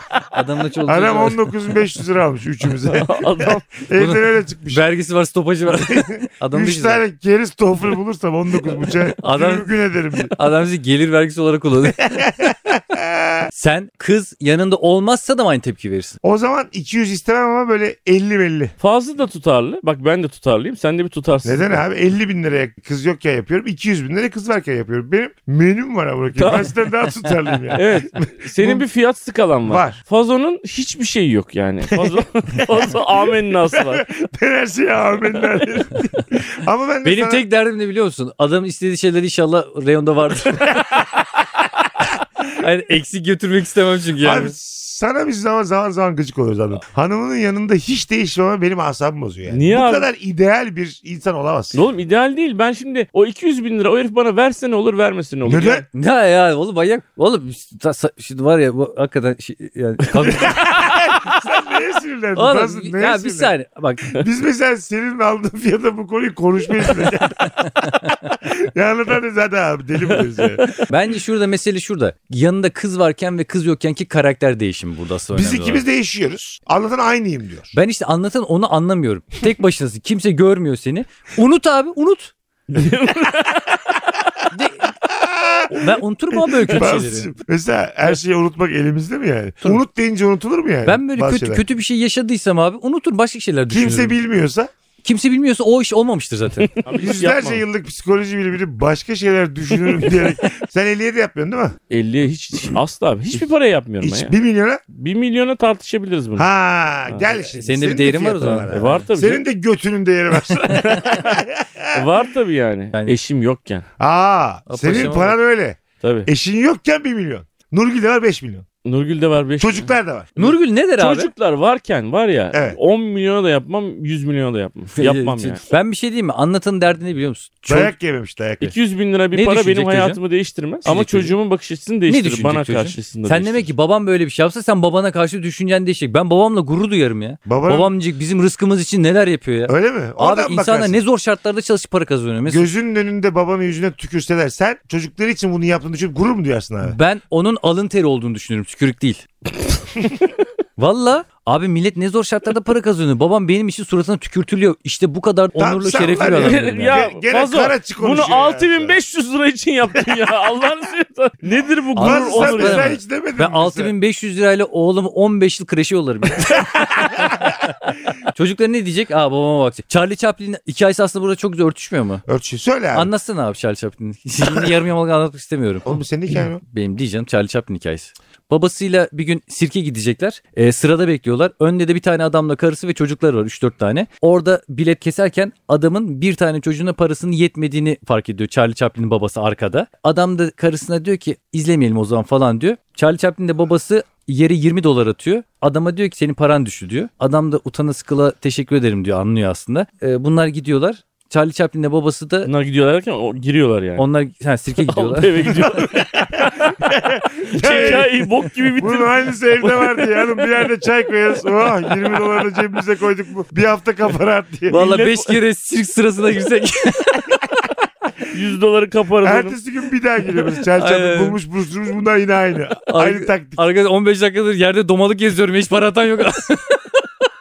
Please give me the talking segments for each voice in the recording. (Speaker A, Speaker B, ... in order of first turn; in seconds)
Speaker A: 0.3-1.5, 4.0-7.0, 9.2-9.7, 10.3-12.1, 13.5-16.2, 37.0-41.0, 42.1-44.5, 55.9-61.4, 62.4-64.2, 67.8-68.1, 70.9-75.8, 77.7-82.3, 84.5-84.9, 85.7-87.3, 90.8-94.2, 95.0-97.6, 107.5-108.7, 114.7-115.3, 120.4-121.3, 124.9-127.9, 129.3-130.2, 130.8-131.3, 132.1-142.7, 146.8-149.2, 150.8-157.1, 161.9-167.8, 168.3-172.2, 172.9-202.5, 203.9-205.5, 214.7-217.5, 220.3-221.4, 222.8-227.2
Speaker B: 0.8-4.8, 5.7-10.3, 12.0-13.5, 16.2-18.7, 21.4-28.8, 29.6-30.0, 31.9-37.4, 40.7-41.4, 44.2-51.8, 55.5-55.8, 60.2-63.5, 64.1-70.7, 75.3-77.7, 85.0-85.9, 86.5-91.6, 93.7-94.7, 96.9-101.8, 104.0-104.8, 106.3-112.0, 114.0-118.7, 119.6-120.3, 122.5-122.8, 127.7-128.7, 137.4-137.9, 139.7-141.0, 142.4-147.0, 155.5-159.0, 161.9-163.9, 166.9-167.5, 172.3-173.1, 175.8-176.6, 205.7-208.2, 208.8-214.9, 219.2-223.6
Speaker C: 2.8-3.6, 18.8-21.8, 26.4-26.7, 27.7-34.0, 49.5-50.1, 51.7-55.8, 82.7-83.8, 96.8-97.2, 101.9-104.3, 104.9-106.5, 108.7-109.4, 110.8-111.3, 111.9-113.8, 116.0-116.3, 118.8-125.6, 128.6-133.7, 156.0-162.9, 202.4-204.0, 204.8-206.1, 207.5-210.4, 214.7-215.3, 218.3-219.6